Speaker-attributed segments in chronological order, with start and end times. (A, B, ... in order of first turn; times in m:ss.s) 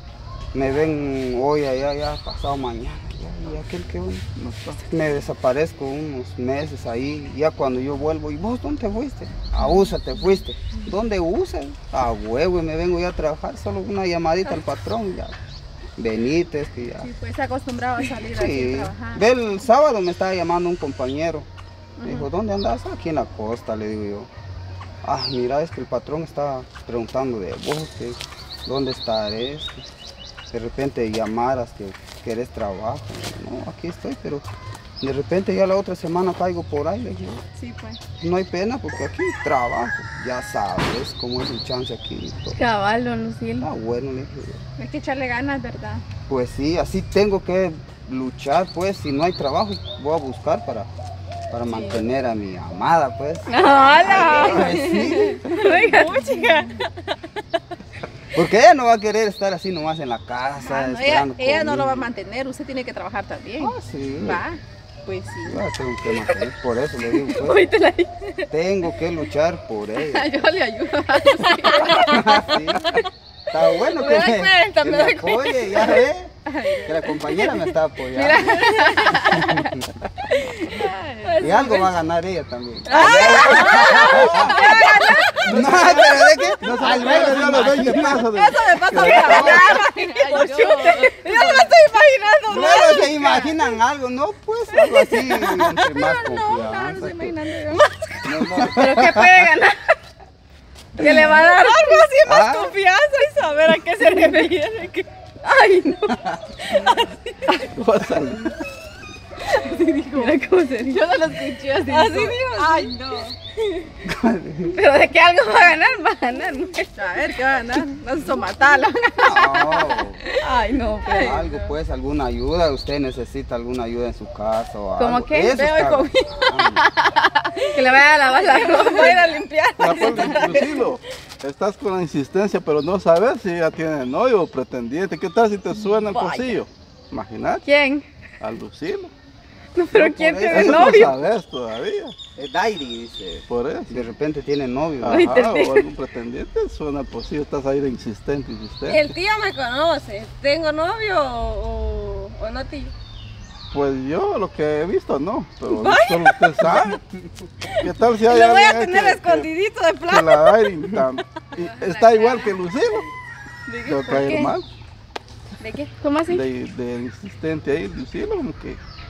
0:00.5-0:04.3 A
0:04.4-0:04.8 B
0:04.9-0:15.4 A
0:16.0-0:17.1 A
0:17.0-0:19.2 C
0:18.3-0:21.5 A
0:22.0-0:22.3 C
0:22.0-0:24.3 A
0:25.0-0:29.8 A
0:30.5-0:34.5 A
0:35.0-0:37.4 A
0:37.6-0:38.0 C
0:38.2-0:42.6 A
0:42.6-0:43.7 D
0:43.6-0:44.6 A
0:44.8-0:46.0 C
0:46.3-0:50.9 A
0:51.5-0:55.4 A
0:51.7-0:52.0 C
0:53.5-0:56.5 D
0:53.9-0:55.4 C
0:54.3-0:54.7 E
0:55.5-0:57.1 E
0:56.1-0:56.6 C
0:58.3-1:02.1 A
1:00.6-1:05.6 C
1:03.6-1:04.4 A
1:05.5-1:07.6 A
1:07.3-1:08.1 D
1:08.5-1:10.3 A
1:10.0-1:12.6 C
1:11.3-1:12.4 E
1:12.1-1:13.0 A
1:13.5-1:16.3 A
1:13.9-1:16.0 E
1:16.5-1:17.2 C
1:16.8-1:19.9 A
1:18.1-1:19.6 C
1:18.5-1:18.9 E
1:20.4-1:21.3 C
1:20.8-1:21.5 D
1:21.2-1:21.9 E
1:21.4-1:24.6 A
1:22.9-1:25.9 E
1:22.9-1:26.6 C
1:23.1-1:24.3 B
1:25.4-1:29.7 B
1:25.4-1:28.3 A
1:28.2-1:33.1 E
1:28.9-1:31.7 C
1:29.1-1:29.7 A
1:29.4-1:31.6 D
1:32.5-1:37.4 A
1:32.5-1:33.5 C
1:34.9-1:37.9 C
1:37.7-1:38.3 E
1:38.2-1:39.5 A
1:38.4-1:39.9 D
1:41.0-1:42.1 D
1:41.0-1:45.1 E
1:42.2-1:42.8 A
1:45.4-1:46.7 D
1:46.1-1:46.4 A
1:46.6-1:47.2 E
1:47.5-1:48.2 D
1:47.7-1:48.6 B
1:49.5-1:51.1 D
1:49.6-1:52.4 C
1:51.9-1:53.4 E
1:52.6-1:52.9 D
1:54.0-1:54.8 A
1:54.7-1:56.9 D
1:57.0-2:00.0 C
1:59.2-2:00.2 A
2:00.3-2:01.5 D
2:01.0-2:01.5 C
2:01.1-2:06.9 A
2:05.0-2:09.3 D
2:05.6-2:06.0 C
2:07.7-2:11.0 E
2:09.8-2:17.7 B
2:10.0-2:10.6 D
2:16.0-2:16.6 D
2:17.6-2:18.1 D
2:18.4-2:19.1 B
2:19.8-2:21.2 D
2:19.9-2:21.1 A
2:20.5-2:22.2 B
2:22.4-2:25.3 A
2:23.5-2:24.1 B
2:25.0-2:29.1 B
2:25.1-2:25.9 D
2:28.9-2:32.9 E
2:33.7-2:37.0 B
2:35.7-2:36.4 E
2:36.6-2:37.4 A
2:37.7-2:40.6 E
2:37.8-2:39.5 B
2:40.1-2:43.1 B
2:41.6-2:42.5 D
2:43.7-2:44.5 E
2:43.8-2:44.7 B
2:43.9-2:44.5 C
2:45.6-2:45.9 C
2:46.0-2:46.4 D
2:46.3-2:48.8 B